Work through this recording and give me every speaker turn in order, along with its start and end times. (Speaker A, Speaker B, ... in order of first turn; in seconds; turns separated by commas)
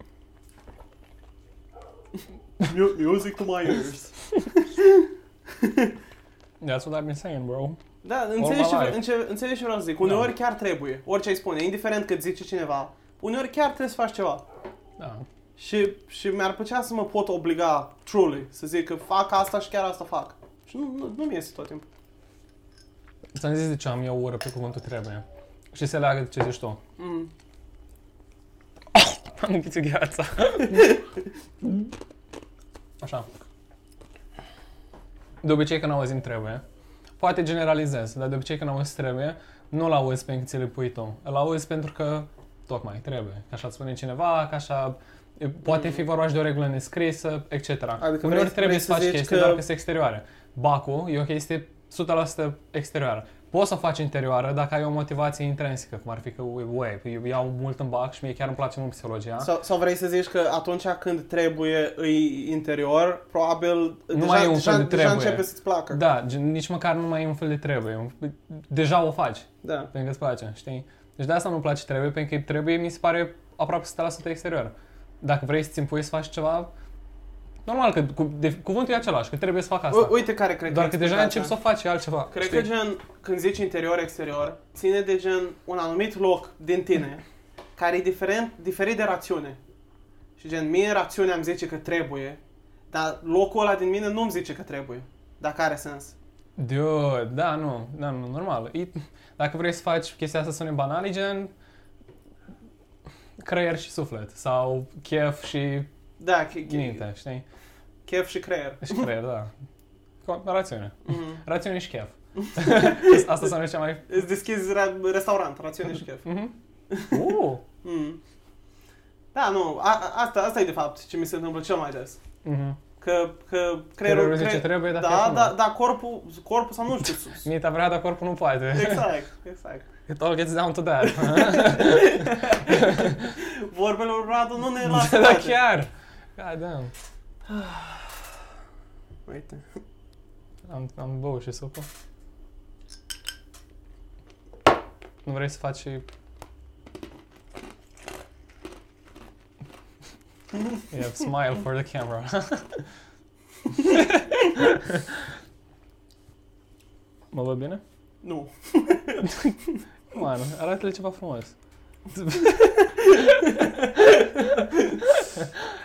Speaker A: 2.6-6.0, Speaker B: 6.6-7.8, Speaker A: 8.0-14.5, Speaker B: 8.4-9.0, Speaker B: 10.0-10.3, Speaker B: 15.0-15.2, Speaker A: 15.6-21.9, Speaker B: 23.4-26.8, Speaker A: 27.0-27.3, Speaker B: 28.9-31.0, Speaker B: 33.0-33.3, Speaker B: 35.4-36.6, Speaker B: 37.2-59.5, Speaker A: 48.0-49.6, Speaker A: 59.4-66.0, Speaker B: 64.1-76.7, Speaker A: 69.6-69.9, Speaker B: 77.7-82.7, Speaker A: 79.9-81.5, Speaker A: 82.3-87.2, Speaker A: 87.8-89.6, Speaker A: 90.4-96.2, Speaker B: 96.6-101.5, Speaker B: 103.4-105.9, Speaker A: 106.2-107.0, Speaker B: 106.7-107.4, Speaker A: 108.1-109.1, Speaker B: 108.8-109.5, Speaker B: 110.2-114.1, Speaker A: 111.1-111.4, Speaker A: 112.4-113.5, Speaker A: 114.1-116.3, Speaker B: 116.2-116.5, Speaker A: 116.9-118.2, Speaker B: 117.1-117.6, Speaker A: 119.3-122.2, Speaker B: 122.4-122.8, Speaker A: 123.0-127.5, Speaker B: 124.0-125.6, Speaker B: 127.4-129.1, Speaker A: 128.7-129.9, Speaker B: 130.1-133.3, Speaker A: 131.0-135.6, Speaker B: 134.8-136.9, Speaker A: 137.5-138.2, Speaker A: 139.3-139.8, Speaker B: 140.7-141.9, Speaker B: 145.2-146.1, Speaker B: 150.9-152.8, Speaker B: 153.8-155.2, Speaker B: 157.3-157.8, Speaker A: 158.2-159.8, Speaker B: 159.2-159.6, Speaker B: 160.1-161.5, Speaker B: 162.2-162.7, Speaker A: 162.3-165.1